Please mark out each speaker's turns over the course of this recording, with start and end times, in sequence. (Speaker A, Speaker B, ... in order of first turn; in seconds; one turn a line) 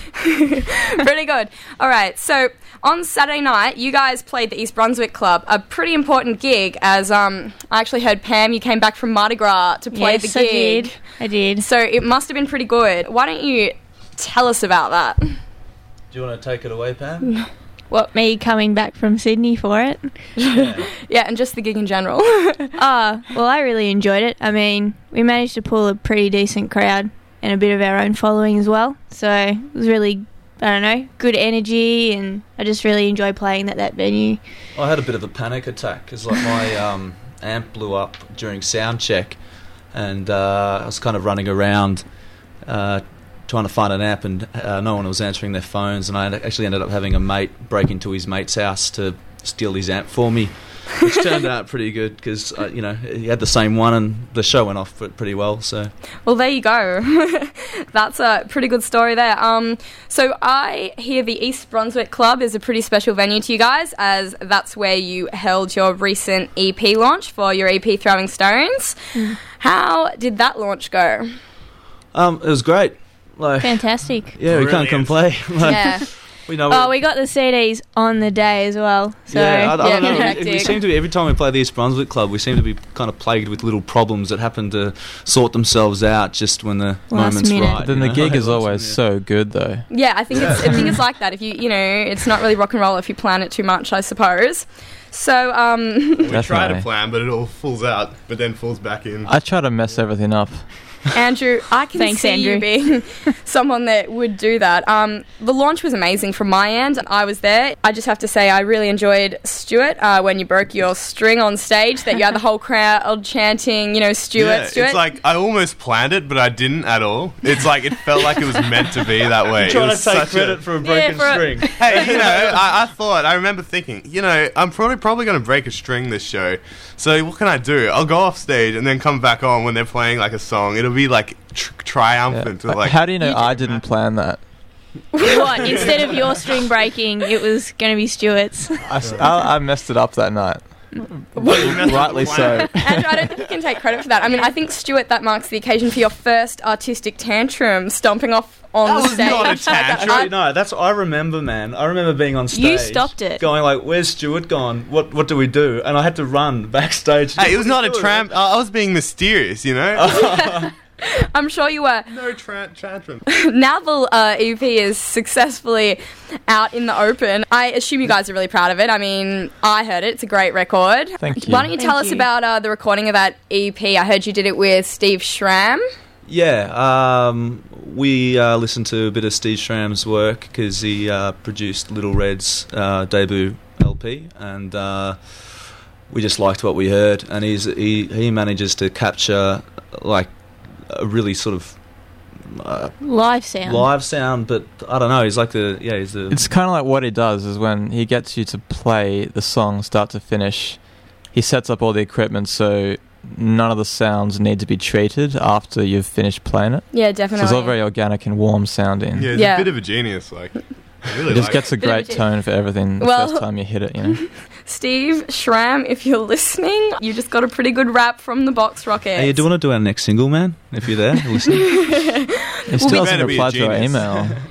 Speaker A: 0.1-11.0
Speaker B: 9.9-11.7
Speaker A: 11.6-15.3
Speaker C: 16.1-17.3
Speaker B: 17.9-20.3
Speaker A: 20.4-22.7
Speaker C: 20.5-20.9
Speaker B: 22.8-34.4
Speaker C: 34.7-39.4
Speaker C: 39.9-42.0
Speaker C: 42.6-55.9
Speaker A: 56.2-71.3
Speaker B: 69.1-69.4
Speaker C: 72.1-77.0
Speaker B: 73.6-74.4
Speaker D: 74.4-75.7
Speaker A: 75.6-76.0
Speaker B: 76.7-80.3
Speaker C: 79.3-89.0
Speaker A: 79.8-80.8
Speaker B: 87.1-87.9
Speaker E: 87.8-90.0
Speaker A: 89.9-96.3
Speaker D: 90.3-91.0
Speaker D: 96.2-99.3
Speaker E: 96.3-96.9
Speaker E: 99.2-100.7
Speaker A: 101.1-115.0
Speaker B: 101.9-103.3
Speaker D: 114.3-120.7
Speaker C: 119.5-122.5
Speaker B: 120.8-122.4
Speaker D: 121.6-133.8
Speaker E: 132.3-134.4
Speaker A: 135.1-135.5
Speaker B: 135.2-138.9
Speaker D: 135.5-136.3
Speaker E: 138.8-140.9
Speaker D: 139.0-139.3
Speaker A: 141.3-150.3
Speaker E: 141.4-143.1
Speaker D: 141.4-142.7
Speaker D: 148.8-150.3
Speaker B: 149.2-149.7
Speaker C: 150.0-158.3
Speaker B: 152.5-153.4
Speaker D: 157.3-160.1
Speaker C: 159.9-160.7
Speaker A: 160.2-162.1
Speaker D: 162.1-163.2
Speaker A: 163.3-175.8
Speaker E: 171.2-171.7
Speaker B: 171.7-172.3
Speaker C: 176.2-196.4
Speaker B: 193.0-193.9
Speaker E: 196.3-209.3
Speaker A: 206.9-207.8
Speaker D: 209.2-211.7
Speaker A: 209.3-209.7
Speaker E: 211.3-214.2
Speaker A: 211.8-212.3
Speaker A: 213.0-213.5
Speaker A: 214.1-219.4
Speaker C: 219.1-222.0
Speaker A: 221.5-223.2
Speaker E: 222.7-224.3
Speaker D: 222.8-224.4